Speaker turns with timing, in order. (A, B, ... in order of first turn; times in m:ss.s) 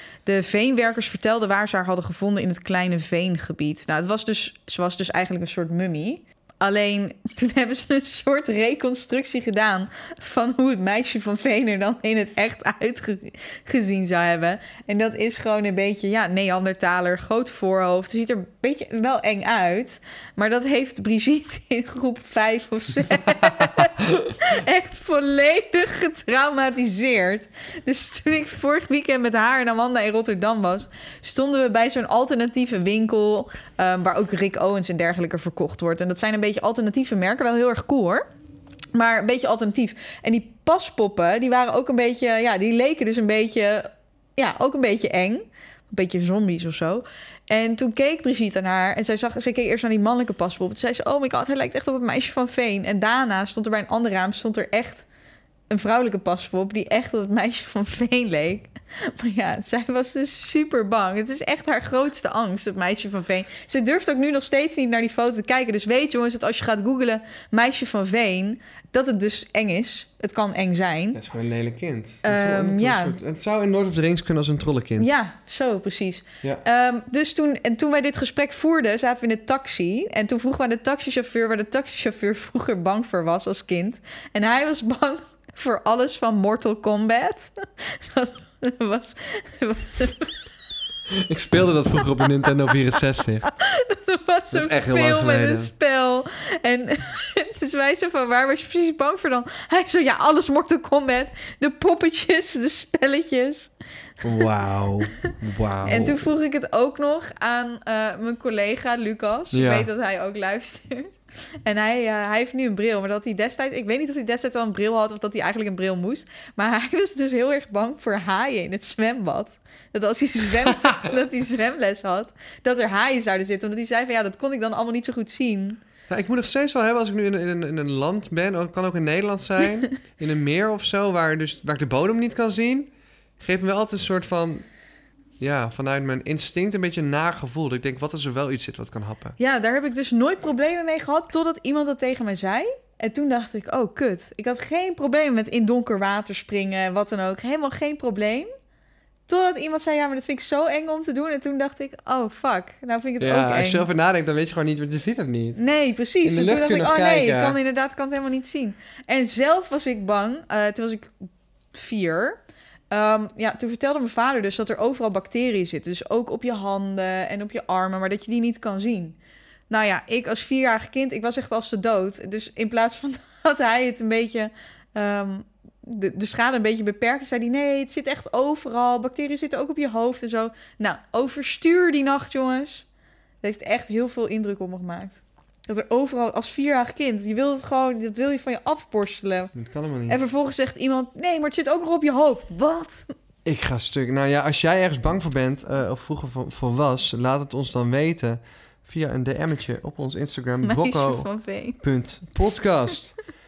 0:00.2-0:38.2 A
0:39.0-0:55.1 A
0:55.7-1:11.2 A
1:11.1-1:15.1 B
1:12.2-1:13.2 A
1:15.0-1:30.3 A
1:31.1-1:33.5 B
1:32.2-1:32.8 A
1:33.4-1:43.7 A
1:34.5-1:35.7 B
1:44.2-1:46.3 B
1:45.8-2:05.8 A
1:49.5-1:49.9 B
2:00.6-2:01.2 B
2:06.1-2:14.6 B
2:15.4-2:19.4 B
2:19.4-2:28.5 A
2:29.3-2:33.9 A
2:33.2-2:35.6 B
2:35.6-2:49.2 A
2:36.2-2:37.6 B
2:49.7-3:02.9 A
3:03.4-3:09.5 A
3:09.6-3:10.2 B
3:10.1-3:13.1 A
3:13.4-3:21.3 B
3:20.6-3:21.8 A
3:21.8-3:23.2 B